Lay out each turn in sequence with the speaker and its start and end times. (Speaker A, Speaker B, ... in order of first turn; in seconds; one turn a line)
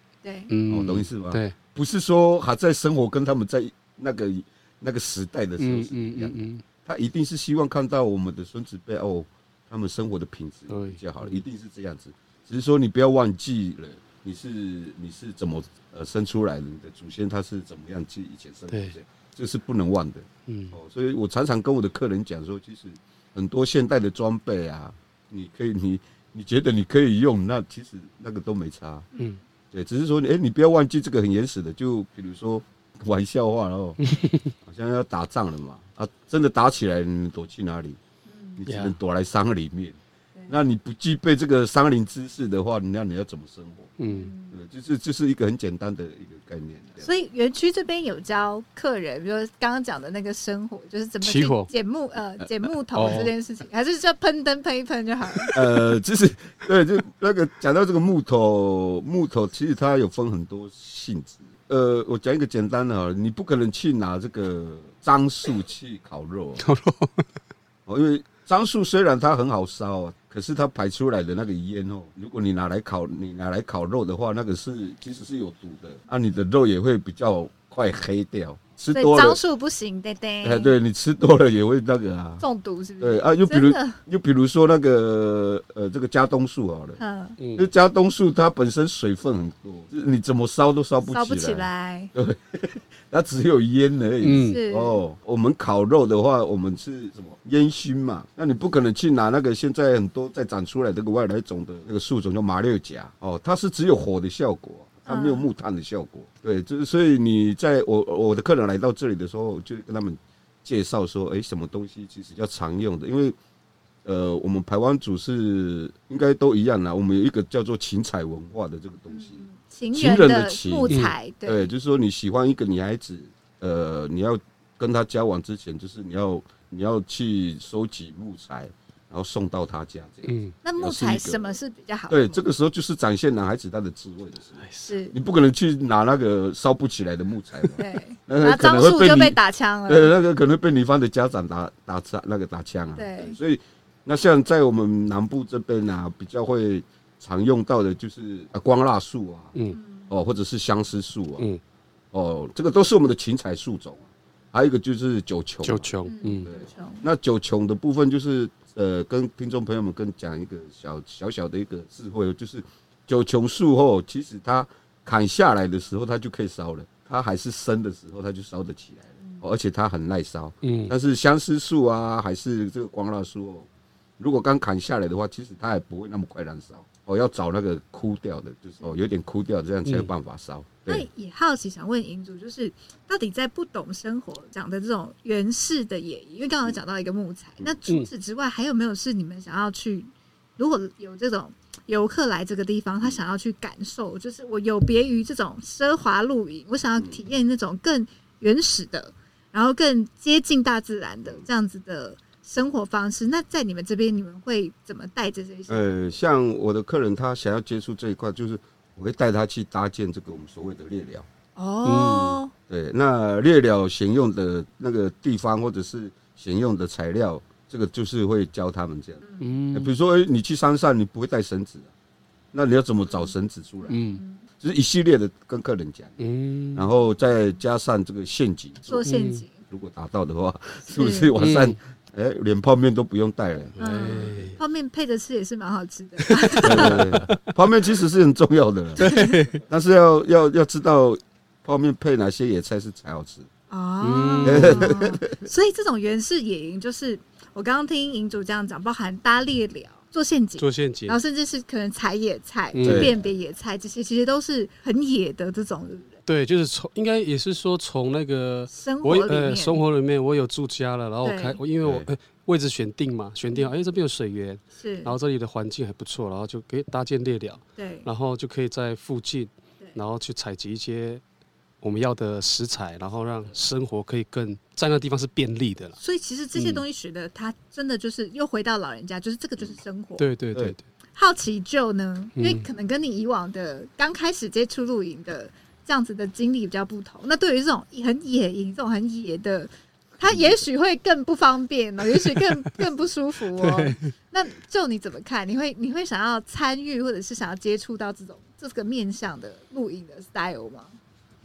Speaker A: 0.2-0.5
Speaker B: 0.5-1.5
Speaker C: 0.7-29.1
Speaker B: 5.6-6.6
Speaker B: 10.7-11.4
Speaker B: 18.7-19.0
Speaker B: 20.5-20.8
Speaker A: 29.1-29.4
Speaker C: 29.7-34.0
Speaker B: 34.0-34.5
Speaker C: 34.6-38.0
Speaker A: 38.2-38.6
Speaker C: 38.6-40.0
Speaker B: 38.6-39.0
Speaker C: 40.5-44.0
Speaker B: 44.0-44.3
Speaker A: 44.0-44.6
Speaker C: 44.5-47.1
Speaker A: 47.0-55.5
Speaker B: 51.2-51.7
Speaker B: 52.9-53.3
Speaker C: 55.5-66.6
Speaker B: 66.6-67.2
Speaker C: 67.9-79.4
Speaker A: 78.9-80.7
Speaker C: 80.4-82.4
Speaker A: 82.4-84.0
Speaker C: 83.0-87.0
Speaker A: 87.0-87.3
Speaker B: 87.4-87.7
Speaker C: 87.5-113.3
Speaker A: 91.0-92.1
Speaker B: 94.2-94.6
Speaker A: 94.4-95.0
Speaker A: 105.0-105.5
Speaker C: 114.0-131.5
Speaker A: 119.1-121.7
Speaker B: 130.2-130.5
Speaker A: 130.6-132.4
Speaker C: 132.1-149.5
Speaker B: 134.6-134.9
Speaker A: 134.8-135.1
Speaker A: 137.8-140.2
Speaker A: 142.9-143.3
Speaker A: 149.7-150.1
Speaker C: 150.1-151.4
Speaker C: 152.1-155.9
Speaker B: 155.6-156.5
Speaker A: 156.1-157.0
Speaker C: 156.4-173.7
Speaker A: 169.2-169.5
Speaker B: 170.6-170.9
Speaker C: 174.2-181.1
Speaker B: 179.8-180.1
Speaker A: 180.9-205.9
Speaker C: 205.7-211.2
Speaker A: 211.6-212.5
Speaker B: 211.8-212.4
Speaker C: 212.7-221.9
Speaker A: 219.2-219.5
Speaker B: 219.4-219.9
Speaker C: 222.5-224.0
Speaker A: 223.1-223.3
Speaker A: 223.8-224.4
Speaker B: 223.9-224.2
Speaker C: 224.6-226.1
Speaker B: 226.2-226.9
Speaker C: 226.7-229.1
Speaker A: 228.9-229.6
Speaker B: 229.1-229.4
Speaker C: 229.6-234.5
Speaker A: 230.9-231.3
Speaker B: 231.4-231.8
Speaker B: 233.8-234.6
Speaker A: 233.8-237.0
Speaker B: 236.5-237.3
Speaker C: 236.6-239.0
Speaker A: 239.0-239.4
Speaker B: 239.0-239.6
Speaker C: 239.7-243.5
Speaker A: 243.7-256.2
Speaker B: 244.0-244.9
Speaker C: 244.4-245.4
Speaker B: 250.6-251.2
Speaker B: 252.7-253.1
Speaker C: 252.8-253.2
Speaker B: 256.2-271.2
Speaker A: 258.7-259.8
Speaker A: 261.2-261.6
Speaker C: 261.8-262.1
Speaker A: 264.8-265.1
Speaker A: 267.8-268.1
Speaker B: 271.8-276.0
Speaker A: 276.0-280.3
Speaker B: 276.6-276.8
Speaker B: 280.2-280.8
Speaker A: 281.1-301.0
Speaker B: 282.4-282.6
Speaker B: 293.6-294.1